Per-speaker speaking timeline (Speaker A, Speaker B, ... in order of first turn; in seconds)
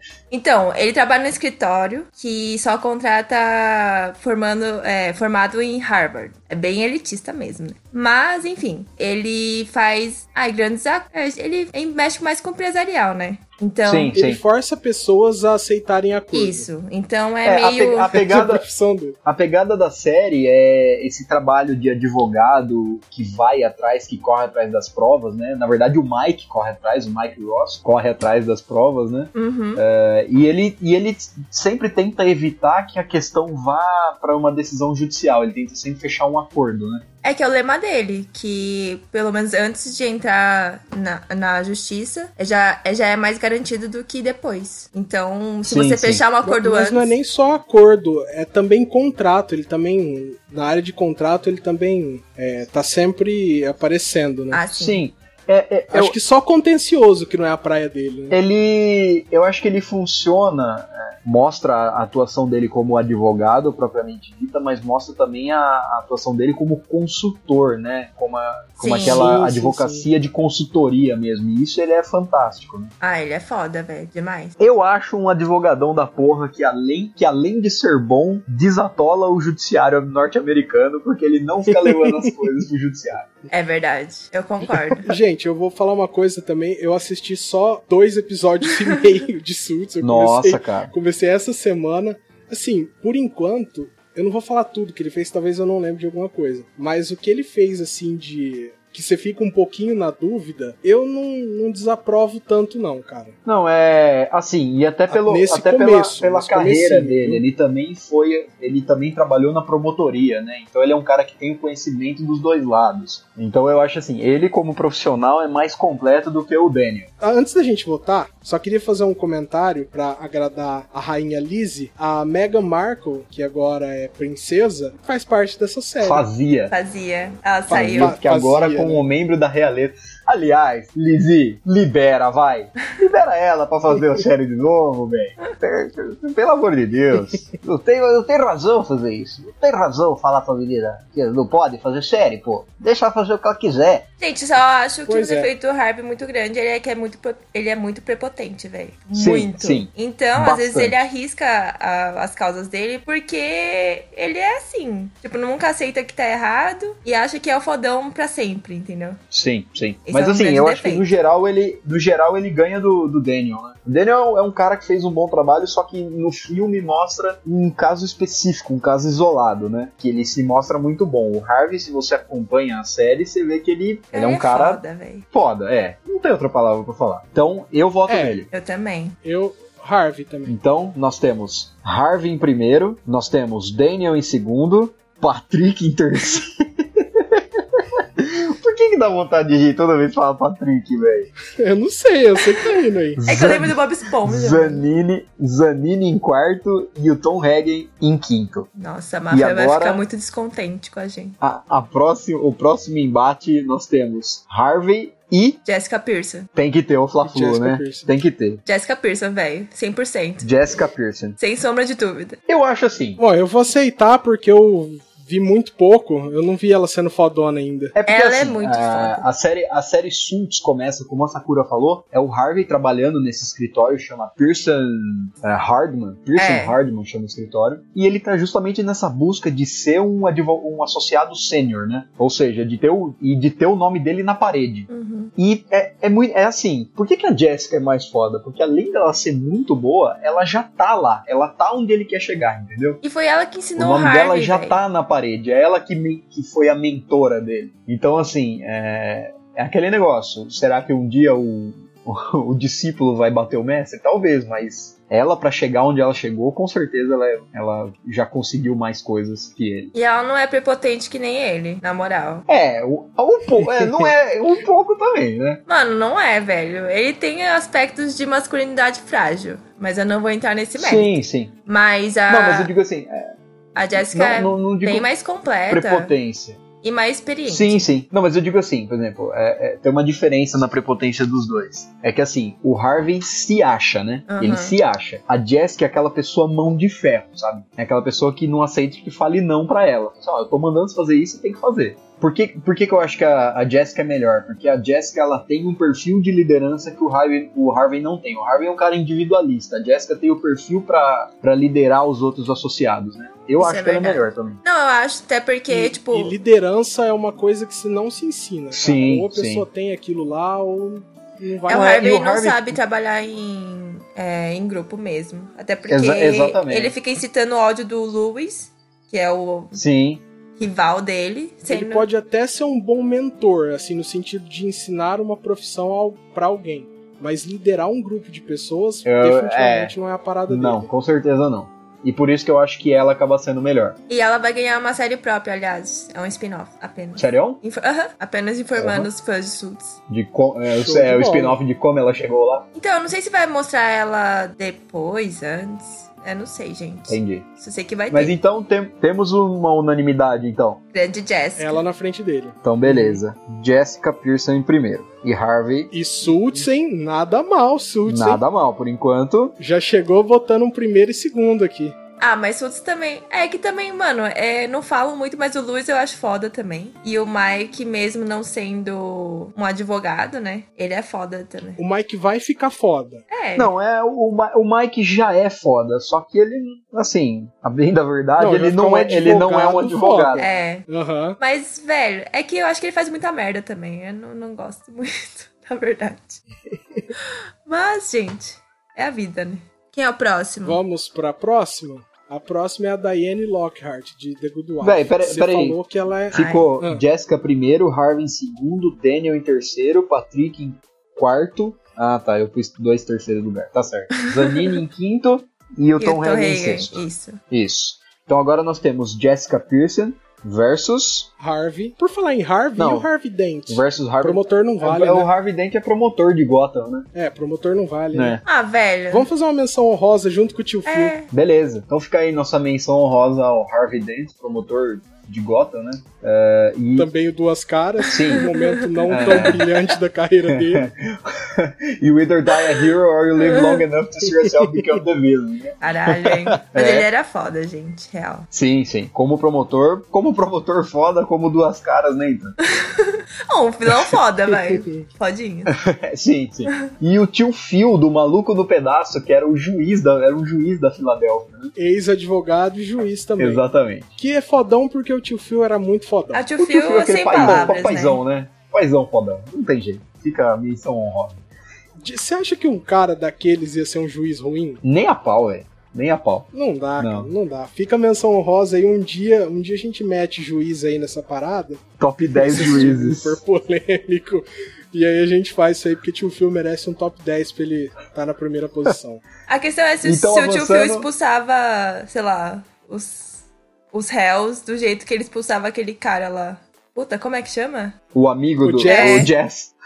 Speaker A: 0.3-14.2, 16.3-18.1, 29.3-29.8, 37.2-47.1, 54.5-55.0, 68.8-69.3, 73.0-74.5, 83.5-85.1, 126.7-128.2, 144.2-159.2, 160.1-161.1, 174.1-175.2, 178.5-179.2, 193.2-194.8, 198.8-201.4, 205.6-206.5, 208.7-210.5, 211.4-212.4, 218.1-219.2, 226.4-226.8, 234.9-235.3, 243.0-244.8, 259.9-262.4, 265.7-272.7, 273.8-276.1, 276.8-277.9, 284.3-284.7, 303.6-306.4, 311.7-319.8, 320.6-322.1, 334.1-340.0, 342.7-348.3, 350.9-351.8, 362.2-371.8, 373.3-373.7, 380.4-380.9, 381.4-386.4, 387.2-390.8, 396.3-396.7, 404.2-404.8, 406.0-407.4, 418.4-419.3, 420.9-421.3, 428.2-429.5, 433.4-433.8, 435.8-438.5, 442.7-445.7, 456.3-458.2, 479.5-488.0, 488.8-489.3
Speaker B: 13.8-14.4, 17.4-18.6, 19.2-37.0, 45.6-46.2, 54.7-56.1, 58.3-72.9, 74.6-83.3, 90.0-90.9, 103.4-117.1, 126.0-126.7, 127.7-144.1, 149.1-150.9, 159.3-178.5, 180.5-191.3, 193.1-198.7, 199.3-200.0, 201.4-205.6, 206.5-208.6, 210.4-211.4, 212.5-213.2, 217.9-243.0, 243.8-259.9, 262.5-265.6, 270.8-271.5, 272.3-273.3, 274.0-275.1, 275.7-276.6, 277.5-304.6, 308.7-309.6, 311.7-312.8, 315.9-316.9, 319.7-320.2, 329.0-329.9, 330.5-334.0, 337.1-337.6, 338.8-339.1, 340.1-342.6, 347.1-347.5, 348.1-350.8, 352.6-355.9, 358.1-359.6, 373.6-380.4, 394.8-395.8, 396.3-411.3, 412.8-413.1, 413.7-417.1, 418.1-418.4, 421.3-427.1, 428.1-428.5, 429.1-429.7, 430.5-437.1, 438.5-442.6, 445.7-451.7, 453.4-454.1, 456.6-461.4, 464.8-467.3, 472.0-473.4, 480.0-481.1, 488.1-489.7
Speaker C: 14.1-16.7, 18.1-19.2, 46.4-54.6, 55.9-58.4, 69.0-70.1, 81.8-82.1, 85.0-103.4, 105.1-107.4, 117.2-126.2, 127.7-129.1, 145.1-145.5, 178.1-178.4, 179.2-180.6, 191.6-193.2, 207.2-208.1, 213.2-217.9, 305.7-312.0, 321.7-330.9, 340.7-341.6, 351.6-353.2, 355.9-358.4, 359.6-361.9, 371.8-373.2, 378.4-381.4, 390.6-397.0, 411.4-415.3, 417.1-418.4, 419.1-421.1, 426.9-430.9, 434.4-434.8, 451.8-453.6, 454.2-456.5, 457.4-457.8, 462.0-464.8, 466.5-471.8, 472.3-479.2, 488.6-489.3